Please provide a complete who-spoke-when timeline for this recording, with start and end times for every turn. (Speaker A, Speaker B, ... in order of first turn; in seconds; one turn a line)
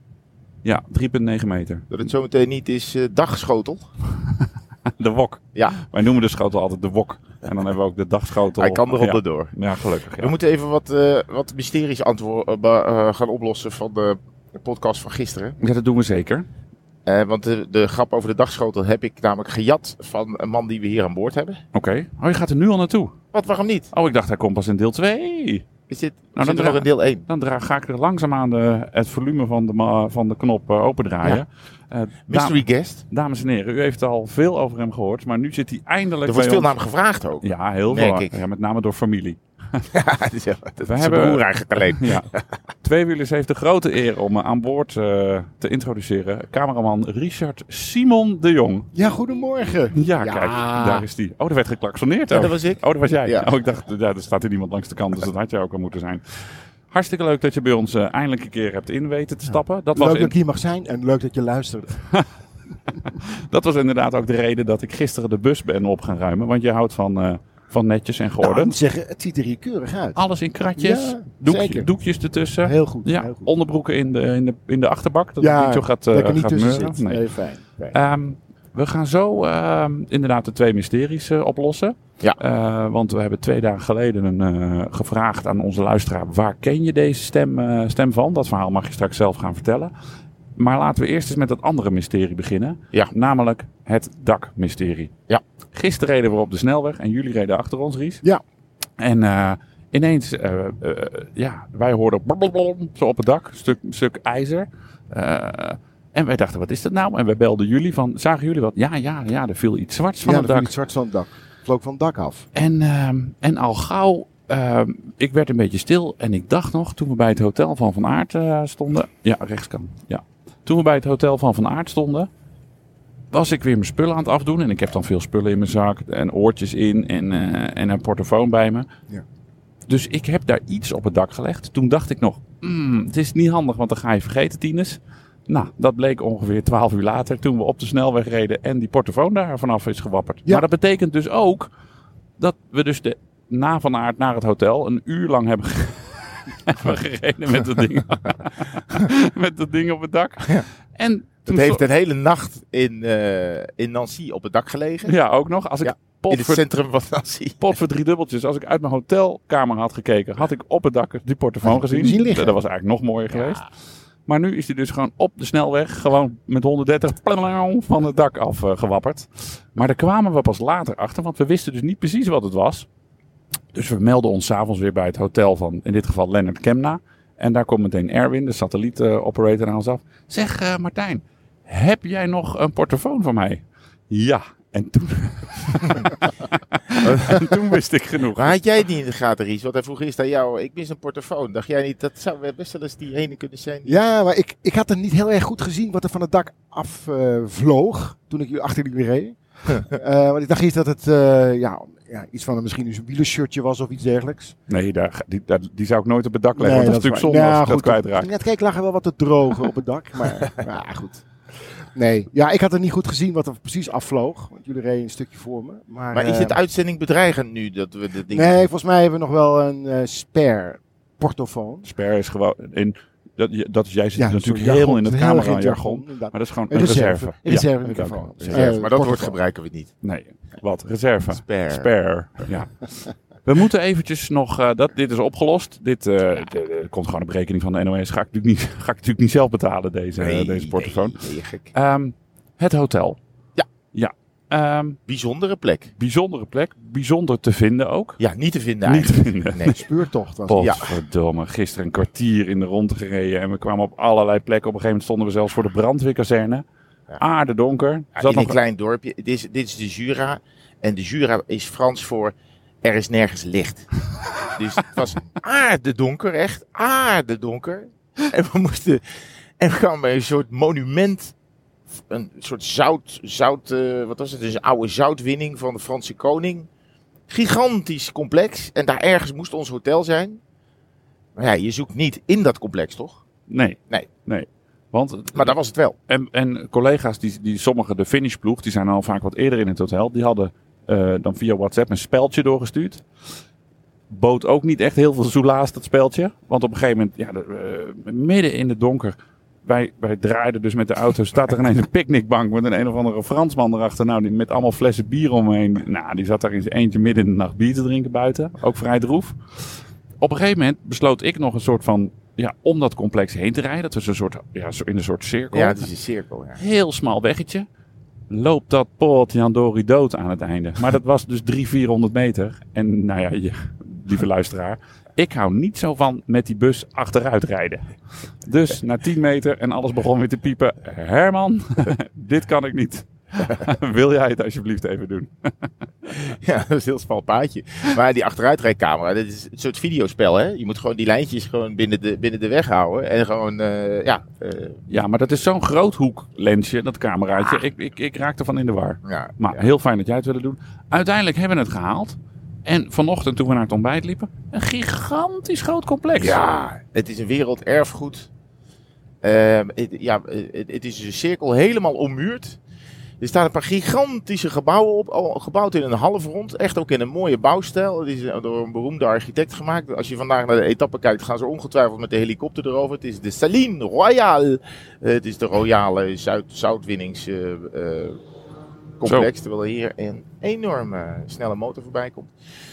Speaker A: 0.6-1.9
Speaker B: 1.9-3.8
Speaker A: 4.9-10.3
Speaker B: 8.6-9.5
Speaker B: 10.2-15.6
Speaker A: 15.6-16.4
Speaker B: 17.1-21.6
Speaker A: 21.7-23.1
Speaker B: 23.3-23.9
Speaker A: 23.9-25.7
Speaker B: 25.9-27.2
Speaker A: 26.3-36.7
Speaker B: 32.3-33.0
Speaker B: 36.2-38.3
Speaker A: 37.4-39.8
Speaker B: 39.9-42.4
Speaker A: 40.8-42.2
Speaker A: 42.8-48.9
Speaker C: 48.9-50.0
Speaker A: 49.9-56.2
Speaker B: 50.2-51.0
Speaker B: 52.3-53.5
Speaker A: 56.9-60.3
Speaker C: 59.9-62.0
Speaker A: 62.9-68.7
Speaker C: 68.4-70.2
Speaker A: 70.2-77.2
Speaker C: 70.8-71.9
Speaker C: 72.6-73.5
Speaker C: 75.4-78.0
Speaker A: 77.9-89.9
Speaker A: 90.5-95.1
Speaker A: 95.7-98.2
Speaker A: 99.0-110.7
Speaker C: 110.2-112.5
Speaker A: 112.5-122.3
Speaker A: 123.3-128.9
Speaker A: 129.9-141.7
Speaker A: 142.4-151.8
Speaker B: 151.4-155.1
Speaker A: 155.0-156.6
Speaker B: 155.8-157.8
Speaker A: 157.6-163.6
Speaker C: 161.6-162.6
Speaker B: 163.3-163.6
Speaker A: 164.3-172.9
Speaker A: 173.7-188.6
Speaker B: 187.1-187.5
Speaker B: 188.3-194.0
Speaker C: 193.8-204.6
Speaker A: 204.7-208.3
Speaker C: 206.6-211.2
Speaker C: 211.9-216.6
Speaker B: 216.1-218.7
Speaker C: 218.3-221.9
Speaker A: 221.8-228.8
Speaker C: 224.2-229.4
Speaker B: 228.5-229.9
Speaker A: 230.0-232.9
Speaker B: 231.3-231.9
Speaker A: 233.4-241.2
Speaker B: 240.2-241.7
Speaker A: 241.7-243.2
Speaker A: 243.9-245.0
Speaker B: 245.1-245.9
Speaker A: 246.0-248.2
Speaker B: 248.2-249.9
Speaker A: 248.8-249.8
Speaker C: 249.8-250.7
Speaker A: 250.5-256.6
Speaker B: 250.6-251.0
Speaker A: 257.2-258.6
Speaker B: 258.1-263.9
Speaker B: 264.4-269.0
Speaker B: 269.6-271.3
Speaker B: 272.0-276.7
Speaker B: 277.3-280.4
Speaker B: 281.4-283.2
Speaker A: 283.5-285.6
Speaker B: 285.4-285.9
Speaker A: 286.1-293.0
Speaker A: 294.1-309.4
Speaker A: 310.2-315.9
Speaker B: 315.5-316.6
Speaker A: 316.6-317.6
Speaker A: 318.3-327.9
Speaker A: 328.4-335.7
Speaker B: 336.1-344.8
Speaker A: 344.9-356.4
Speaker B: 349.0-349.7
Speaker B: 356.1-358.3
Speaker B: 359.2-362.6
Speaker B: 363.2-378.2
Speaker B: 379.0-382.3